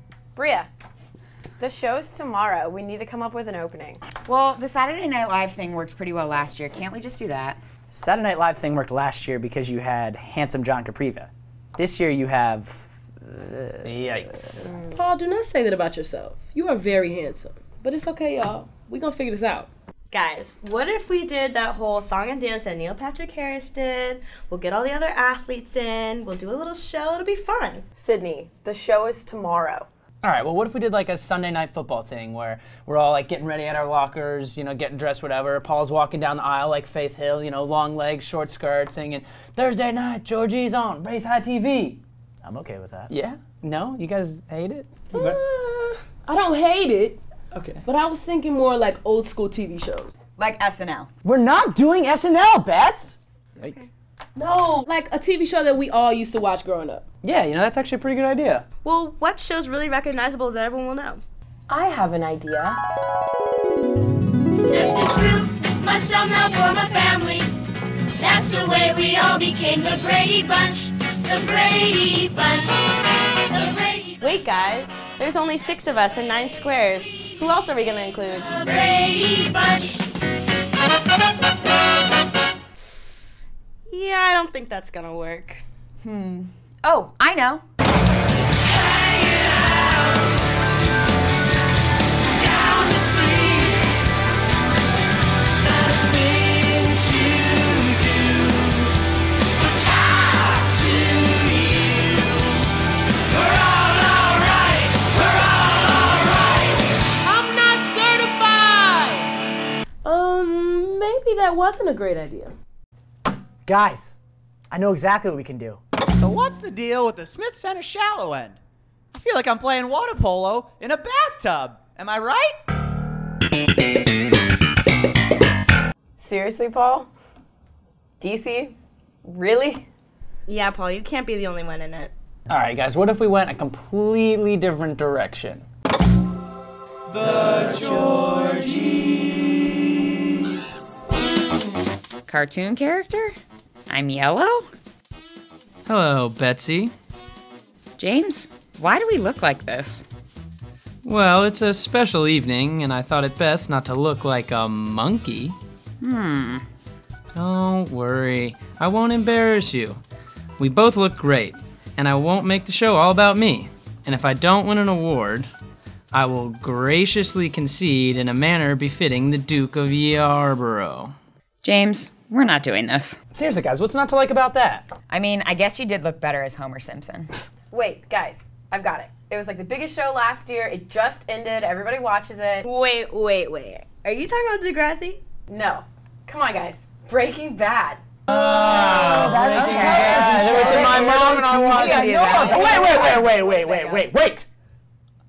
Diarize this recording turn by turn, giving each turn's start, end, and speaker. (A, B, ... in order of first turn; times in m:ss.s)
0:00.3-0:00.7 A
0:01.6-0:04.0 A
0:04.2-0:07.6 B
0:07.9-0:13.9 C
0:13.8-0:14.7 D
0:14.8-0:19.7 E
0:20.1-0:27.8 F
0:28.0-0:29.9 A
0:30.2-0:42.0 D
0:42.4-0:43.1 C
0:43.1-0:45.4 D
0:45.1-0:47.2 E
0:47.8-0:50.2 E
0:50.4-0:51.1 B
0:51.2-0:51.9 D
0:51.3-0:53.1 C
0:54.4-0:57.0 E
0:57.2-0:58.6 D
0:58.8-1:01.2 F
1:01.7-1:02.8 A
1:04.7-1:07.4 G
1:08.2-1:12.7 G
1:13.5-1:14.1 G
1:14.2-1:18.7 F
1:18.6-1:19.9 G
1:23.9-1:25.6 F
1:26.0-1:27.6 B
1:47.2-1:49.3 E
1:50.0-1:52.5 E
1:53.6-1:54.1 C
1:54.7-1:55.8 C
1:56.2-1:58.6 H
1:59.1-2:02.6 H
2:06.2-2:07.1 A
2:08.2-2:09.8 A
2:10.5-2:12.1 F
2:12.5-2:15.6 D
2:17.6-2:18.9 H
2:22.3-2:23.4 B
2:23.9-2:24.7 B
2:25.8-2:26.9 I
2:28.0-2:30.0 B
2:31.0-2:35.6 I
2:36.0-2:36.6 B
2:37.3-2:40.0 I
2:40.6-2:45.5 I
2:46.1-2:51.1 I
2:51.6-2:53.2 B
2:53.3-2:54.9 D
2:55.1-2:57.3 B
2:57.7-3:02.6 A
3:02.6-3:05.2 F
3:05.5-3:08.0 A
3:08.3-3:14.5 C
3:08.3-3:12.7 D
3:08.3-3:10.3 I
3:09.6-3:13.2 B
3:09.7-3:11.2 A
3:11.9-3:14.1 A